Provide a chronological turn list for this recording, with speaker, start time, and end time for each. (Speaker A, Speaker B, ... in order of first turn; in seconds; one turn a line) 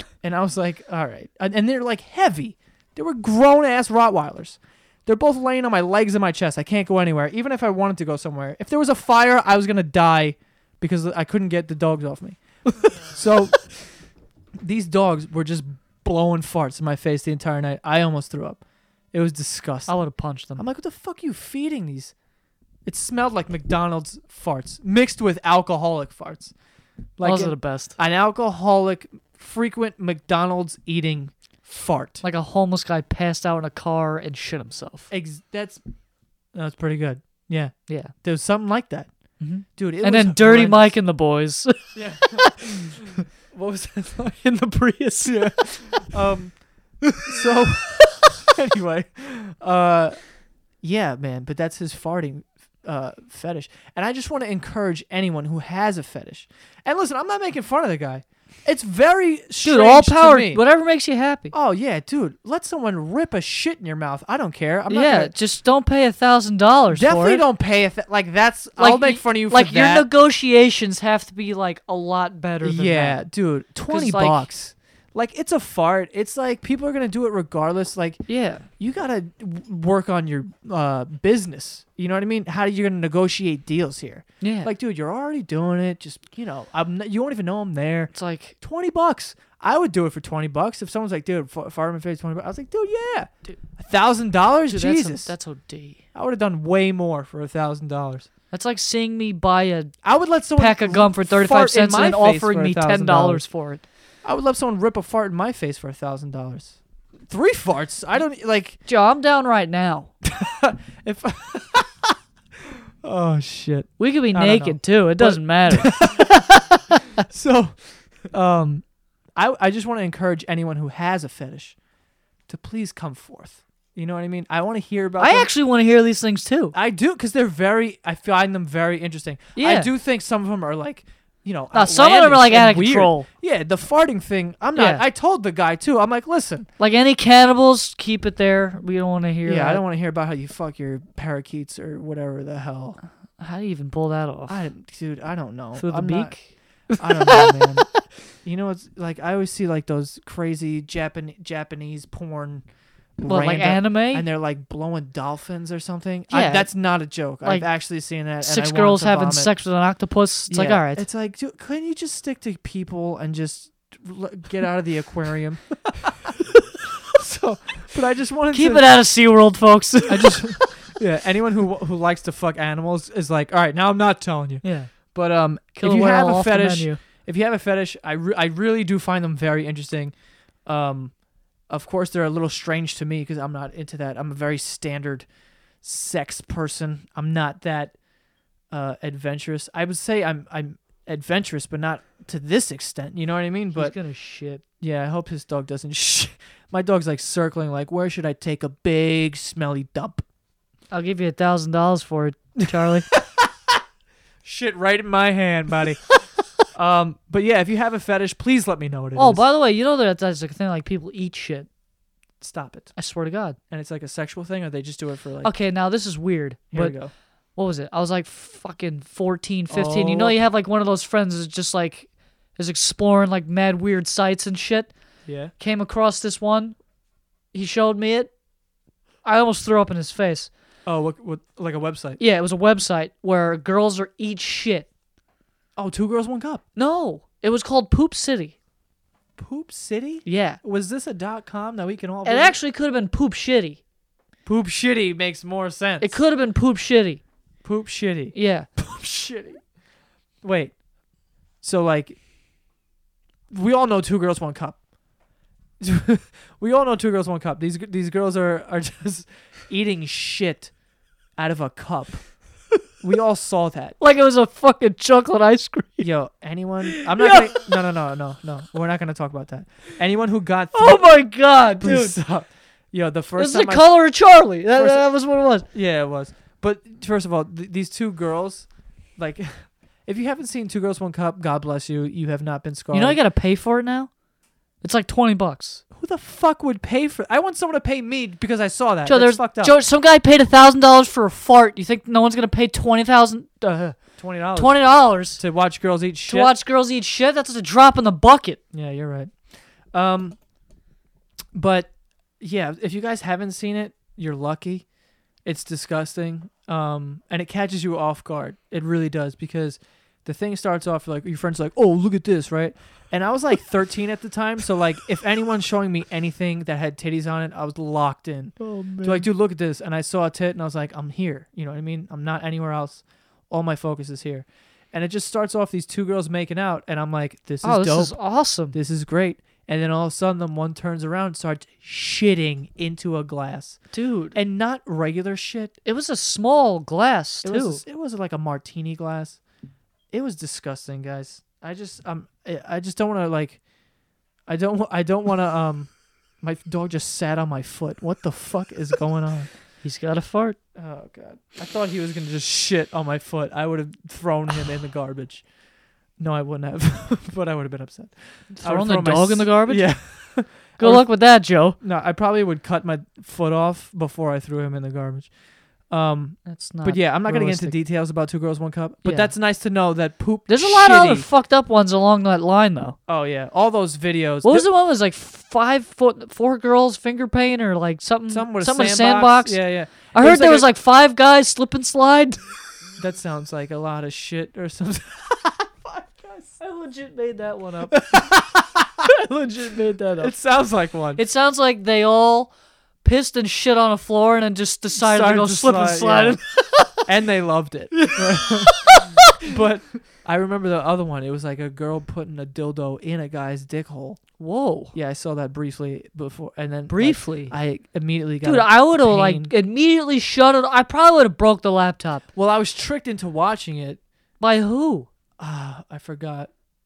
Speaker A: 0.2-13.9
Speaker A: 14.6-20.0
Speaker B: 19.9-20.6
Speaker A: 20.6-22.1
Speaker A: 22.9-26.5
Speaker A: 27.2-32.2
Speaker B: 27.2-28.0
Speaker B: 32.2-35.1
Speaker A: 35.1-35.8
Speaker A: 36.5-39.1
Speaker B: 37.9-38.1
Speaker B: 39.4-42.6
Speaker A: 39.6-41.0
Speaker A: 41.9-44.4
Speaker B: 44.4-46.1
Speaker A: 45.2-60.6
Speaker B: 59.6-61.5
Speaker A: 61.5-65.3
Speaker B: 64.9-67.4
Speaker A: 66.9-70.1
Speaker B: 68.8-73.3
Speaker A: 72.6-95.3
Speaker B: 73.9-74.5
Speaker B: 78.3-78.7
Speaker B: 84.4-84.7
Speaker B: 88.1-88.6
Speaker B: 94.7-96.0
Speaker A: 96.1-98.3
Speaker B: 98.5-103.8
Speaker A: 100.0-103.5
Speaker A: 104.2-108.8
Speaker B: 108.8-110.1
Speaker A: 110.2-112.1
Speaker A: 113.0-116.5
Speaker B: 114.0-116.3
Speaker A: 117.2-121.8
Speaker A: 122.5-125.5
Speaker B: 125.2-126.8
Speaker A: 126.7-136.7
Speaker B: 129.6-129.9
Speaker B: 131.7-133.3
Speaker B: 134.8-135.0
Speaker B: 136.8-139.8
Speaker A: 139.4-143.0
Speaker B: 143.4-144.6
Speaker A: 144.5-159.5
Speaker B: 145.8-147.8
Speaker B: 153.3-154.3
Speaker B: 156.3-161.1
Speaker A: 160.5-166.1
Speaker A: 167.2-168.9
Speaker B: 168.5-170.5
Speaker A: 170.1-180.1
Speaker B: 174.6-175.1
Speaker B: 175.8-177.0
Speaker A: 180.7-185.3
Speaker A: 185.8-188.0
Speaker A: 188.7-194.0
Speaker B: 193.7-194.6
Speaker A: 194.8-200.2
Speaker B: 200.9-203.1
Speaker A: 204.4-206.1
Speaker A: 206.7-209.5
Speaker B: 209.2-211.7
Speaker A: 212.4-213.0
Speaker B: 213.0-213.6
Speaker A: 213.7-215.5
Speaker B: 215.4-226.8
Speaker A: 216.7-217.1
Speaker A: 219.7-220.4
Speaker A: 225.3-225.5
Speaker B: 227.5-228.3
Speaker B: 229.2-230.5
Speaker A: 230.8-232.2
Speaker B: 232.2-234.9
Speaker A: 235.8-236.6
Speaker B: 236.8-238.6
Speaker A: 239.4-242.6
Speaker B: 240.2-240.6
Speaker B: 242.2-243.8
Speaker A: 244.5-246.2
Speaker B: 246.0-247.2
Speaker A: 247.6-249.7
Speaker B: 248.3-248.7
Speaker A: 250.4-250.8
Speaker A: 251.6-252.2
Speaker A: 253.5-254.8
Speaker A: 255.8-260.8
Speaker A: 261.4-262.4
Speaker A: 263.0-264.0
Speaker B: 264.0-266.1
Speaker A: 266.0-273.9
Speaker B: 266.9-267.6
Speaker B: 270.7-272.2
Speaker B: 273.4-275.7
Speaker A: 274.8-275.1
Speaker A: 275.7-283.2
Speaker B: 282.9-284.1
Speaker B: 284.8-285.8
Speaker A: 285.9-289.8
Speaker B: 289.1-295.4
Speaker A: 294.2-296.5
Speaker B: 296.3-298.6
Speaker A: 298.7-300.4
Speaker A: 301.5-304.9
Speaker A: 305.4-333.8
Speaker B: 318.6-319.3
Speaker B: 327.6-328.8
Speaker B: 333.9-334.4
Speaker A: 334.3-335.8
Speaker B: 335.9-337.8
Speaker A: 337.4-339.4
Speaker A: 340.1-343.6
Speaker A: 344.5-349.5
Speaker B: 349.8-350.6
Speaker A: 350.8-355.4
Speaker A: 356.2-361.1
Speaker B: 358.5-361.8
Speaker A: 361.8-365.3
Speaker A: 365.9-371.3
Speaker B: 366.4-367.8
Speaker B: 369.0-369.4
Speaker B: 370.5-373.0
Speaker A: 373.1-374.7
Speaker B: 374.4-382.4
Speaker A: 378.3-380.7
Speaker A: 383.0-386.6
Speaker B: 386.6-388.3
Speaker A: 387.9-389.1
Speaker B: 389.0-390.3
Speaker A: 390.2-391.2
Speaker B: 391.2-397.1
Speaker A: 395.0-396.4
Speaker A: 397.1-404.3
Speaker B: 398.0-399.2
Speaker B: 404.4-404.9
Speaker A: 404.9-409.5
Speaker B: 406.9-407.6
Speaker B: 408.4-412.2
Speaker A: 412.3-414.0
Speaker B: 414.4-415.1
Speaker A: 415.4-416.5